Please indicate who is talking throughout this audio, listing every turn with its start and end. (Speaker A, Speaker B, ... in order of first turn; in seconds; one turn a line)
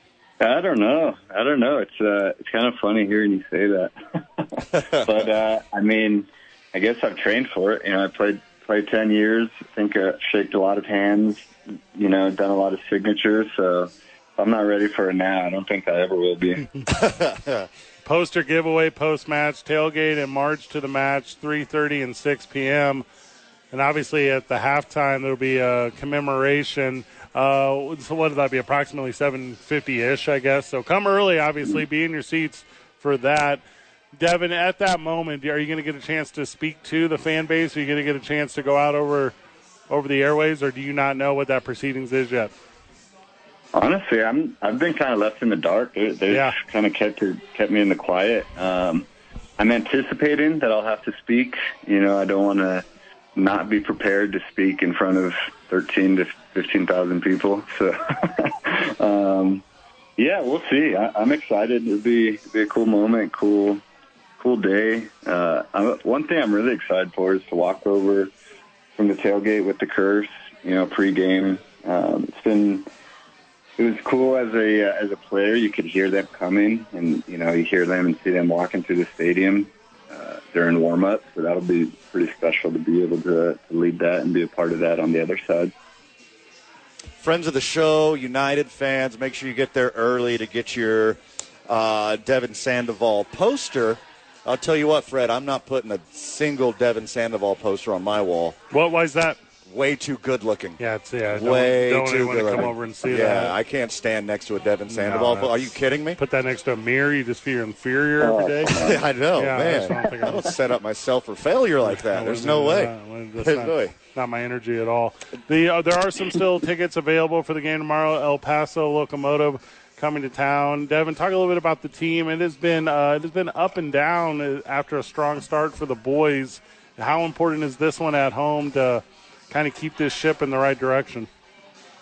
Speaker A: 0.4-16.7
Speaker B: 16.9-17.7
Speaker C: 18.0-23.0
Speaker C: 23.7-33.6
Speaker C: 34.1-39.3
Speaker C: 39.9-42.5
Speaker A: 43.7-59.6
Speaker C: 46.3-46.6
Speaker A: 60.2-63.8
Speaker A: 64.4-68.3
Speaker A: 69.0-72.9
Speaker A: 73.8-85.7
Speaker B: 87.2-98.6
Speaker C: 98.7-99.4
Speaker B: 99.7-100.8
Speaker C: 100.8-103.5
Speaker B: 101.3-106.2
Speaker C: 104.9-105.7
Speaker C: 106.2-108.8
Speaker A: 108.2-109.0
Speaker B: 108.7-114.0
Speaker C: 109.3-110.6
Speaker C: 111.8-131.3